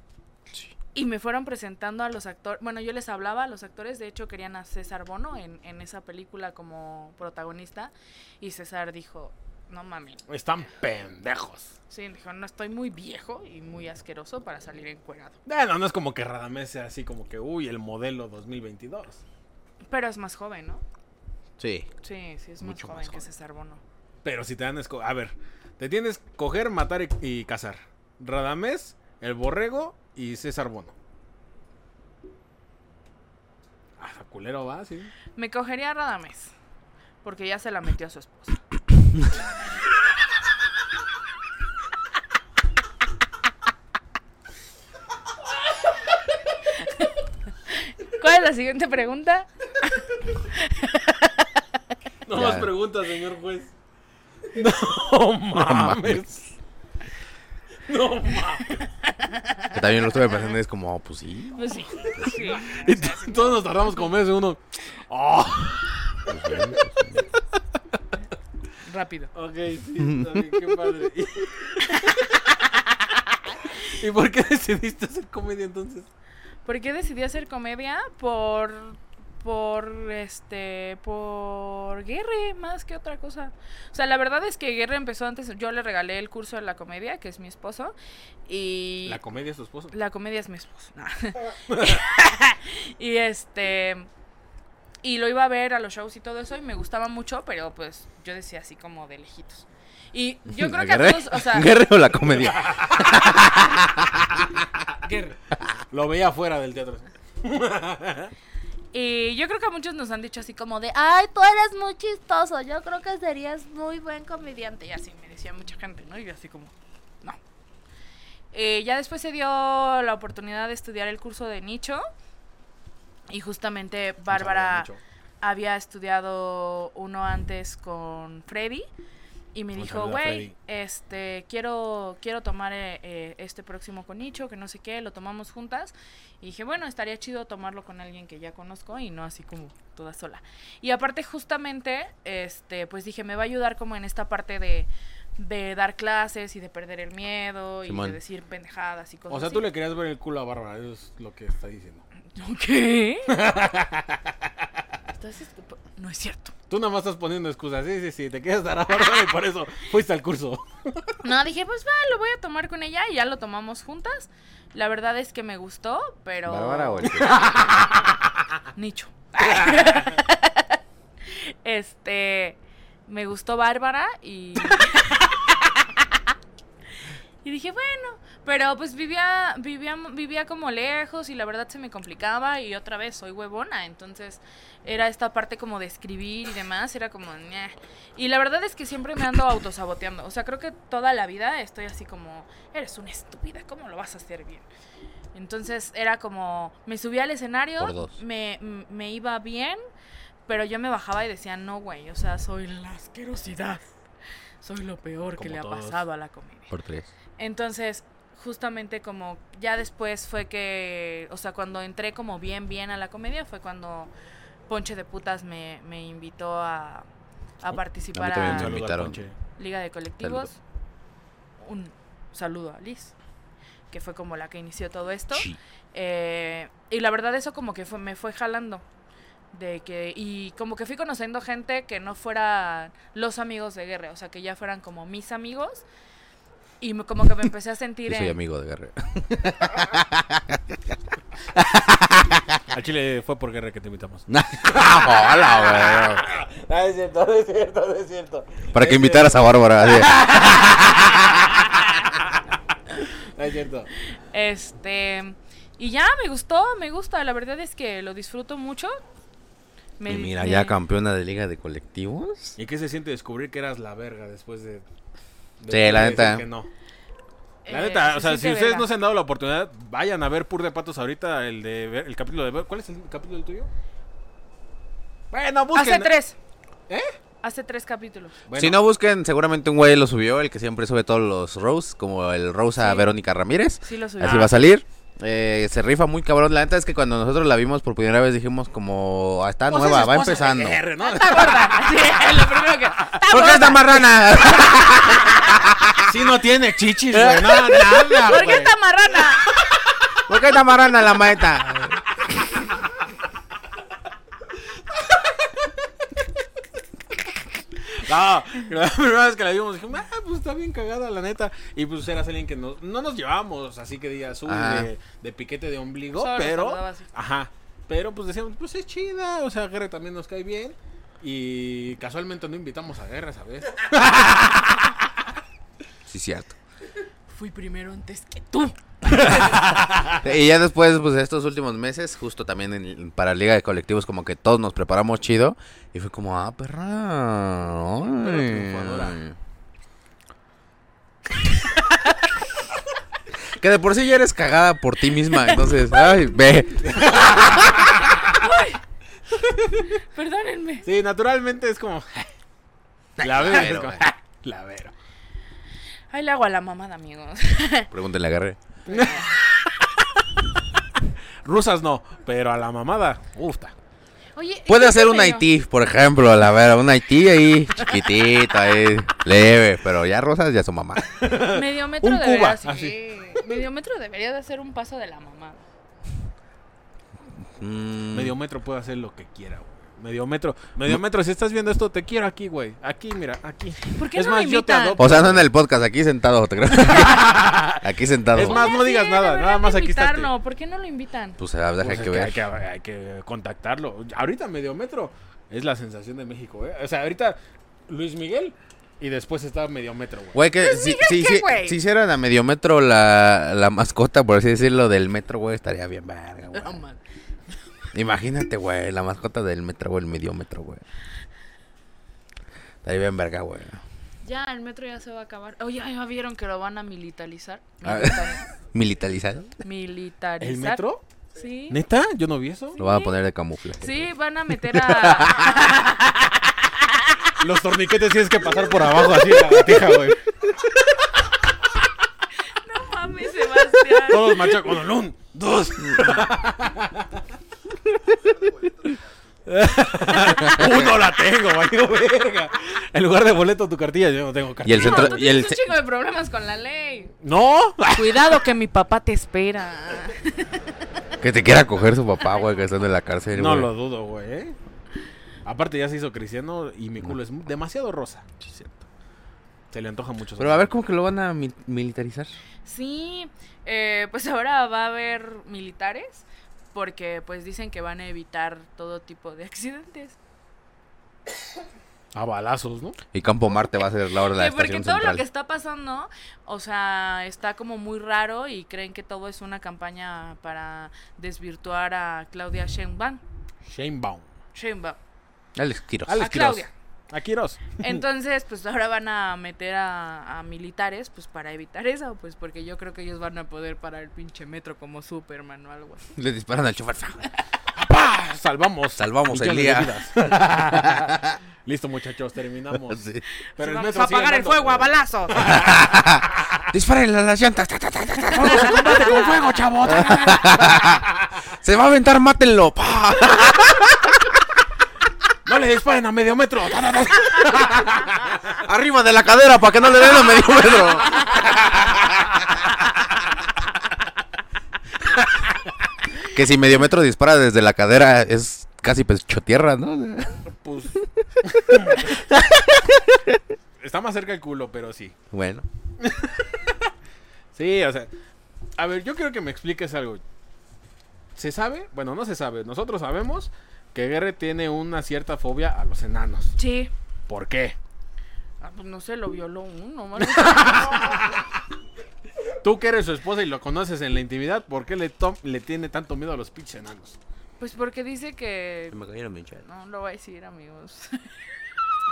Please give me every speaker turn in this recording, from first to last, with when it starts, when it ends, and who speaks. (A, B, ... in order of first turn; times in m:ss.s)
0:00.9-0:10.3 A
0:10.3-0:11.7 B
0:11.9-0:15.4 A
0:15.5-0:19.2 B
0:19.8-0:20.8 A
0:21.6-0:21.9 C
0:22.0-0:23.8 A
0:22.6-0:23.2 C
0:24.2-0:30.9 B
0:34.0-0:35.1 B
0:35.4-0:36.5 A
0:37.2-0:38.6 A
0:46.6-0:47.1 A
0:47.7-0:51.6 A
0:52.2-0:53.7 B
0:52.3-0:52.7 C
0:54.5-0:56.3 B
0:55.5-0:56.3 C
0:57.9-0:58.9 B
0:59.1-0:59.7 A
0:59.7-1:01.7 C
1:01.6-1:04.1 A
1:02.2-1:06.6 B
1:06.3-1:07.2 C
1:08.8-1:09.3 A
1:09.3-1:12.6 B
1:10.0-1:10.4 C
1:13.8-1:16.1 B
1:16.6-1:28.0 A
1:28.5-1:29.2 A
1:29.1-1:29.9 B
1:29.9-1:34.1 A
1:31.7-1:32.0 B
1:35.0-1:41.8 A
1:40.5-1:44.4 C
1:42.4-1:43.0 B
1:45.1-1:45.4 B
1:45.9-1:48.3 B
1:48.9-1:57.4 A
1:58.5-2:02.0 A
2:03.3-2:04.9 A
2:04.3-2:05.0 B
2:05.4-2:08.9 A
2:09.5-2:29.7 A
2:09.7-2:10.5 B
2:27.9-2:28.2 C
2:29.3-2:32.0 B
2:32.4-2:33.4 A
2:33.3-2:34.4 B
2:35.1-2:36.5 A
2:36.7-2:41.2 B
2:41.2-2:47.9 A
2:46.5-2:47.4 C
2:48.7-2:56.2 A
2:57.4-3:14.7 A
3:15.3-3:19.8 A
3:17.8-3:18.2 C
3:20.5-3:24.0 A
3:24.6-3:26.7 A
3:25.4-3:26.0 B
3:26.7-3:27.1 C
3:27.4-3:34.1 A
3:34.7-3:37.1 A
3:37.6-3:38.7 A
3:37.7-3:39.2 C
3:38.4-3:39.4 B
3:39.6-3:40.6 A
3:40.2-3:40.5 C
3:41.6-3:43.1 A
3:43.9-3:48.8 A
3:45.3-3:45.6 C
3:49.5-3:55.9 A
3:56.8-3:58.4 A
3:58.1-4:00.9 C
4:01.5-4:02.6 C
4:02.7-4:11.1 B
4:04.3-4:06.2 C
4:08.7-4:11.4 C
4:13.4-4:13.9 B
4:14.1-4:19.0 A
4:20.0-4:20.8 A
4:20.0-4:22.6 C
4:22.6-4:24.8 B
4:25.6-4:26.7 B
4:25.7-4:26.5 C
4:27.6-4:28.9 A
4:27.7-4:33.7 B
4:35.3-4:36.1 B
4:35.8-4:36.4 A
4:37.4-4:38.4 A
4:38.5-4:38.8 B
4:38.6-4:50.8 C
4:42.8-4:43.1 A
4:43.8-4:44.6 A
4:44.2-4:44.5 B
4:49.7-4:53.6 B
4:51.0-4:54.1 A
4:53.2-4:56.2 C
4:56.0-4:58.7 B
4:57.1-4:57.9 C
4:58.3-4:59.5 A
5:00.3-5:02.0 C
5:07.8-5:25.1 B
5:14.5-5:14.9 C
5:16.1-5:17.1 A
5:26.1-5:26.5 C
5:27.3-5:29.6 A
5:29.3-5:30.1 B
5:30.2-5:39.4 C
5:38.2-5:39.2 B
5:43.5-5:47.4 C
5:46.8-5:48.2 B
5:47.3-5:48.8 A
5:49.4-5:49.9 B
5:50.1-5:50.9 A
5:50.8-5:52.3 B
5:53.2-5:54.1 C
5:53.2-5:54.9 B
5:56.1-5:57.9 A
5:57.9-5:58.6 C
5:58.9-5:59.3 A
5:58.9-6:00.2 B
6:01.4-6:03.7 B
6:04.4-6:05.5 A
6:04.7-6:11.0 C
6:11.0-6:13.5 B
6:11.5-6:15.6 A
6:17.6-6:18.4 C
6:18.1-6:25.5 B
6:23.9-6:25.0 A
6:25.0-6:28.7 C
6:26.8-6:30.3 B
6:28.4-6:31.4 A
6:31.4-6:32.4 C
6:31.8-6:40.4 B
6:40.3-6:46.8 C
6:40.6-6:41.8 A
6:46.5-6:47.0 A
6:47.9-6:50.8 C
6:52.8-6:53.8 C
6:54.2-6:58.5 A
6:57.8-6:59.6 C
6:59.6-7:01.8 A
7:00.4-7:01.0 B
7:01.7-7:02.8 B
7:02.7-7:03.2 A
7:02.8-7:04.1 C
7:03.8-7:07.3 A
7:04.7-7:05.7 B
7:07.4-7:10.5 B
7:12.4-7:14.7 A
7:14.0-7:17.2 B
7:19.5-7:25.2 B
7:20.3-7:20.9 C
7:24.6-7:25.8 C
7:24.7-7:27.1 A
7:27.2-7:28.4 B
7:27.9-7:30.7 A
7:31.2-7:33.7 C
7:32.2-7:32.8 A
7:33.4-7:34.6 B
7:35.4-7:38.7 B
7:39.7-7:40.7 B
7:40.4-7:42.3 C
7:42.6-7:50.2 A
7:52.1-7:53.0 B
7:53.1-7:55.2 C
7:54.3-8:03.2 A
8:03.7-8:04.3 B
8:04.6-8:05.0 A
8:05.6-8:06.3 C
8:06.1-8:08.0 B
8:06.2-8:06.7 A
8:07.8-8:16.1 A
8:16.2-8:17.3 C
8:17.8-8:23.0 B
8:19.0-8:20.0 C
8:20.7-8:21.3 C
8:22.9-8:23.2 C
8:23.4-8:25.5 A
8:23.6-8:26.6 B
8:25.5-8:29.3 C
8:28.3-8:31.0 B
8:29.9-8:31.0 C
8:31.6-8:34.4 C
8:35.5-8:38.3 B
8:38.6-8:42.4 C
8:46.3-8:50.4 C
8:50.5-8:52.3 B
8:52.3-8:53.4 C
8:53.8-8:55.2 B
8:55.3-8:55.7 C
8:56.0-8:56.9 B
8:57.6-8:58.1 B
8:58.8-9:00.2 B
9:01.4-9:06.6 B
9:06.6-9:06.9 A
9:07.3-9:07.8 B
9:08.6-9:11.1 A
9:10.3-9:11.4 B
9:12.6-9:17.2 B
9:17.6-9:19.0 A
9:18.9-9:19.6 C
9:19.6-9:21.4 A